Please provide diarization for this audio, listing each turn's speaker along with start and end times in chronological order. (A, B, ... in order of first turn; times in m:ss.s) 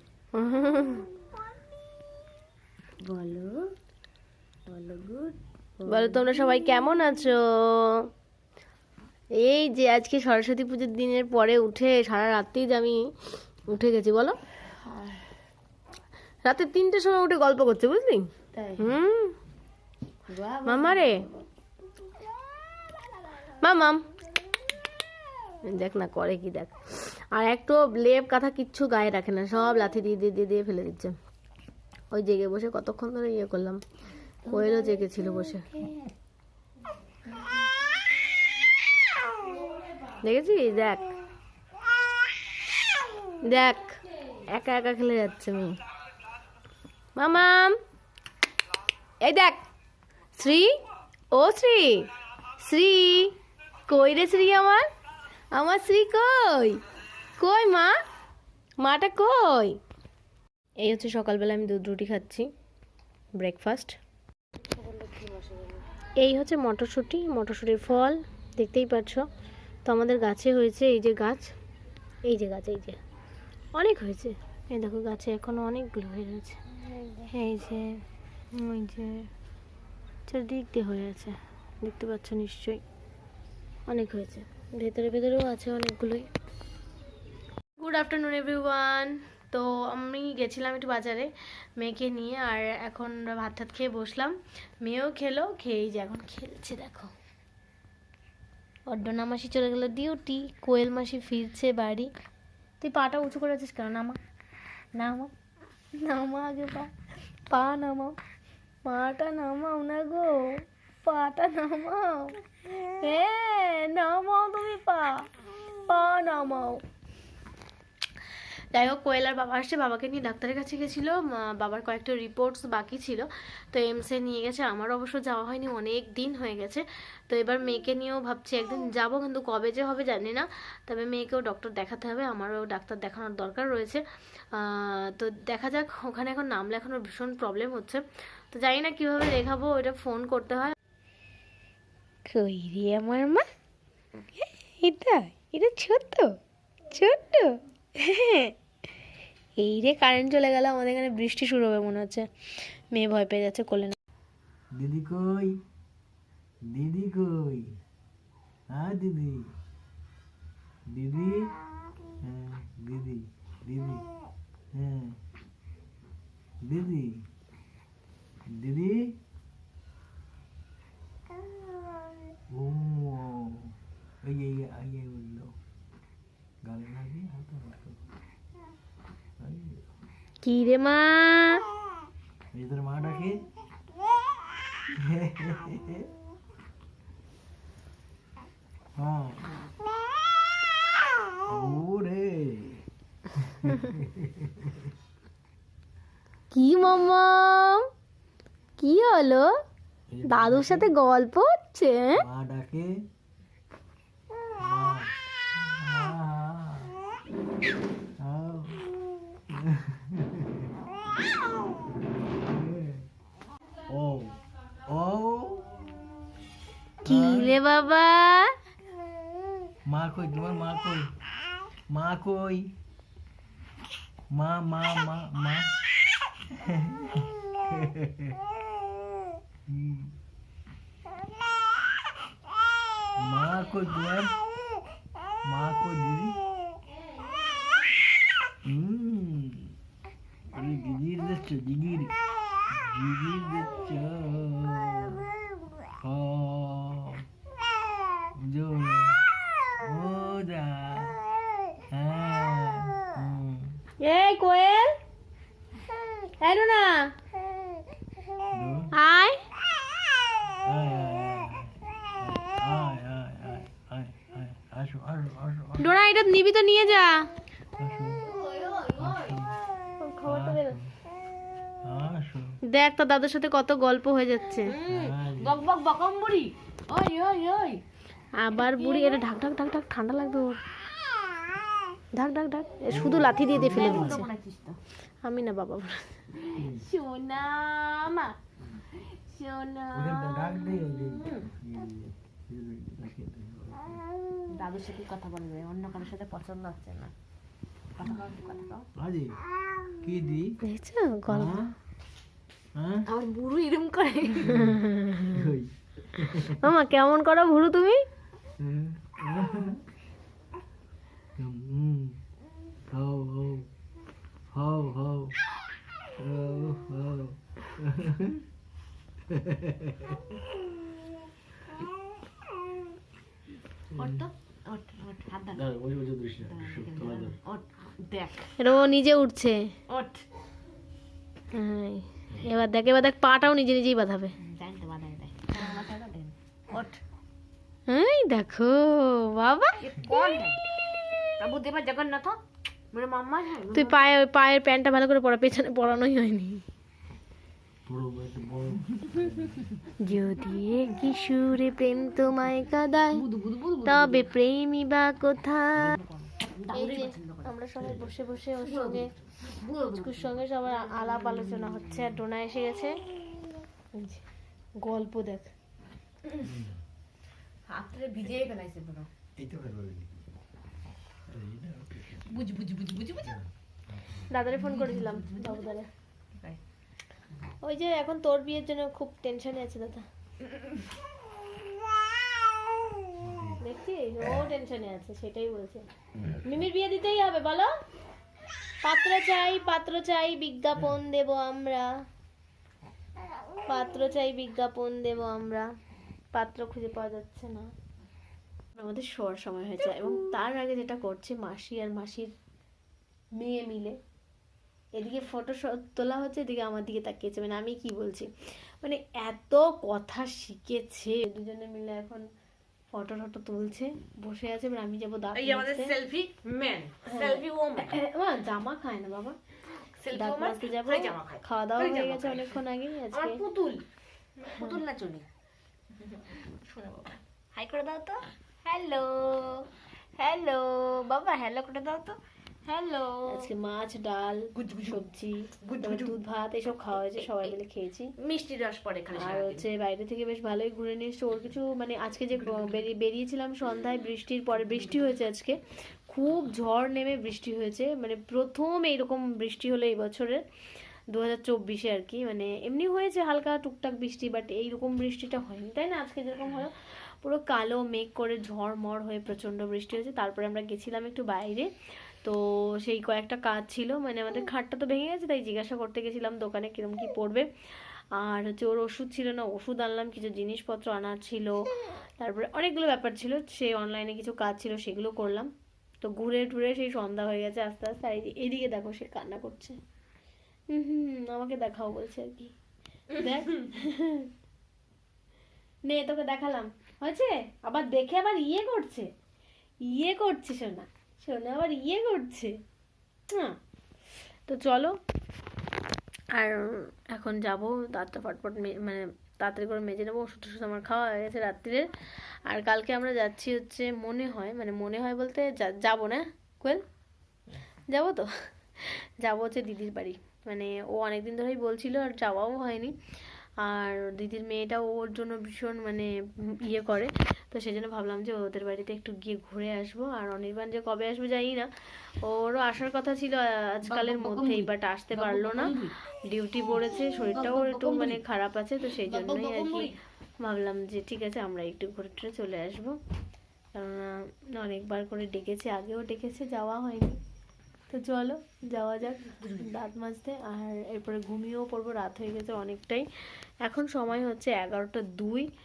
0:00.3-0:01.1 A
0:03.0-0:03.6 B
0:04.7-0:06.4 B
0:05.8-0:08.1 A
0:09.4-0:13.1 A
0:13.7-0:14.4 A
0:14.8-0:15.2 B
0:16.4-0:18.3 A
0:18.5-0:19.0 B
0:18.8-0:19.3 A
0:20.3-0:21.1 B
0:20.6-0:21.2 A
0:23.5-0:24.0 A
0:25.6-0:31.2 A
0:32.1-0:33.8 A
0:34.4-0:35.8 A
0:34.4-0:35.8 B
0:40.2-0:41.1 A
0:43.4-0:45.8 A
0:47.2-0:47.8 A
0:49.2-0:49.6 A
0:50.3-0:50.7 A
0:51.3-0:52.0 A
0:52.6-0:53.3 A
0:53.9-0:54.8 A
0:55.5-0:56.8 A
0:57.4-0:57.9 A
0:58.8-0:59.8 A
1:00.8-1:02.5 A
1:03.4-1:04.0 A
1:04.7-1:05.8 B
1:06.2-1:09.2 A
1:09.8-1:11.5 A
1:12.2-1:13.0 A
1:13.7-1:16.6 A
1:17.2-1:18.0 A
1:18.5-1:19.3 A
1:20.3-1:22.8 A
1:23.9-1:26.3 A
1:27.8-1:37.1 A
1:38.9-1:42.1 A
1:42.8-1:44.2 A
1:45.0-1:45.3 A
1:46.0-1:46.9 A
1:47.5-1:48.2 A
1:48.8-1:55.3 A
1:55.8-1:56.8 A
1:58.7-2:20.7 A
2:22.3-2:23.5 A
2:24.4-2:26.3 A
2:26.9-2:28.5 A
2:29.6-2:32.2 A
2:32.9-2:34.0 A
2:34.7-2:35.6 C
2:36.7-2:37.7 C
2:38.7-2:39.4 C
2:40.9-2:41.5 C
2:42.2-2:44.0 C
2:44.7-2:45.2 C
2:46.6-2:47.2 C
2:48.5-2:49.2 C
2:52.5-2:55.5 C
2:56.6-2:58.0 C
2:59.4-2:59.8 C
3:00.4-3:01.6 A
3:02.5-3:03.4 C
3:04.9-3:06.1 C
3:09.0-3:09.5 C
3:11.5-3:14.9 C
3:16.5-3:17.8 A
3:18.8-3:19.5 A
3:20.1-3:20.9 C
3:20.2-3:22.2 A
3:22.2-3:22.9 C
3:24.6-3:27.0 C
3:28.2-3:28.9 C
3:29.5-3:30.8 C
3:32.1-3:33.1 C
3:33.9-3:35.9 C
3:37.0-3:37.6 C
3:37.0-3:38.5 A
3:39.9-3:41.1 C
3:41.9-3:42.7 C
3:44.3-3:45.7 C
3:46.5-3:48.4 C
3:49.7-3:50.1 C
3:53.2-3:54.3 C
3:55.4-3:56.4 C
3:58.6-3:59.7 C
4:00.5-4:02.1 C
4:02.7-4:05.3 C
4:06.0-4:07.2 C
4:08.4-4:09.2 C
4:09.8-4:11.2 C
4:11.9-4:13.8 C
4:14.0-4:15.0 A
4:16.2-4:17.1 A
4:18.5-4:18.9 C
4:18.9-4:19.4 A
4:20.5-4:26.0 C
4:25.8-4:27.3 A
4:27.8-4:28.2 C
4:28.2-4:29.4 B
4:29.0-4:29.6 C
4:30.0-4:30.8 A
4:30.2-4:31.0 C
4:31.8-4:32.5 C
4:32.7-4:34.7 A
4:34.6-4:37.8 B
4:34.9-4:35.6 C
4:38.4-4:40.6 A
4:38.5-4:39.2 B
4:42.1-4:44.3 A
4:42.9-4:44.2 C
4:43.5-4:44.8 B
4:45.2-4:46.1 A
4:46.4-4:48.4 B
4:46.5-4:46.8 C
4:48.9-4:51.5 B
4:49.9-4:54.0 C
4:54.5-4:57.1 B
4:58.0-4:58.9 B
4:59.0-5:00.6 C
5:00.6-5:01.6 A
5:01.3-5:01.7 C
5:02.8-5:03.1 C
5:03.0-5:04.7 B
5:04.6-5:06.6 C
5:04.6-5:05.5 A
5:06.4-5:08.0 A
5:08.6-5:09.8 C
5:11.4-5:12.2 C
5:12.9-5:13.7 C
5:14.5-5:15.4 C
5:16.2-5:18.4 C
5:19.3-5:20.2 C
5:23.9-5:24.3 C
5:23.9-5:25.6 B
5:25.5-5:27.4 C
5:26.4-5:28.5 B
5:28.6-5:29.6 A
5:29.9-5:30.2 B
5:31.5-5:34.3 A
5:34.4-5:37.0 B
5:37.9-5:40.4 A
5:39.8-5:40.6 B
5:41.4-5:42.4 B
5:42.9-5:44.1 B
5:43.7-5:46.6 A
5:47.9-5:49.8 C
5:50.0-5:53.2 A
5:53.1-5:54.3 B
5:53.8-5:56.0 A
5:55.8-5:57.5 B
5:56.7-5:59.1 A
5:57.8-5:58.1 C
5:58.6-6:02.0 B
5:59.9-6:03.0 A
6:03.9-6:04.2 A
6:04.8-6:05.5 A
6:06.4-6:06.8 C
6:07.7-6:09.1 B
6:09.4-6:10.1 C
6:11.3-6:12.2 C
6:12.3-6:13.4 B
6:13.2-6:14.3 C
6:14.3-6:15.9 A
6:14.6-6:15.8 B
6:16.3-6:16.6 B
6:17.6-6:20.0 A
6:20.5-6:20.8 B
6:23.2-6:23.6 C
6:23.6-6:25.8 A
6:26.4-6:27.7 A
6:28.8-6:31.9 A
6:33.6-6:35.7 A
6:36.3-6:37.7 A
6:38.8-6:42.3 A
6:43.4-6:44.0 A
6:45.0-6:52.2 A
6:52.9-6:56.0 A
6:55.3-6:58.0 B
6:57.0-6:59.4 A
7:00.0-7:03.8 B
7:00.1-7:03.4 A
7:04.4-7:05.2 B
7:06.0-7:13.5 B
7:13.2-7:18.1 A
7:14.5-7:15.0 B
7:15.6-7:16.1 B
7:17.0-7:17.5 B
7:18.2-7:19.6 B
7:19.1-7:30.4 A
7:31.1-7:41.7 A
7:42.2-7:47.5 A
7:48.2-7:51.6 A
7:52.2-7:55.5 A
7:56.0-7:59.8 A
8:00.7-8:02.5 A
8:03.1-8:04.3 A
8:03.2-8:03.6 B
8:05.9-8:09.1 A
8:09.9-8:12.5 A
8:13.3-8:13.6 A
8:14.5-8:14.9 A
8:16.3-8:21.9 A
8:22.4-8:26.8 A
8:27.9-8:28.3 A
8:28.8-8:32.9 A
8:33.6-8:41.7 A
8:42.2-8:45.7 A
8:43.8-8:45.9 B
8:46.2-8:53.0 A
8:47.2-8:48.2 B
8:48.8-8:50.0 B
8:53.7-8:57.2 A
8:57.9-9:03.0 A
8:59.4-8:59.7 B
9:03.6-9:05.5 A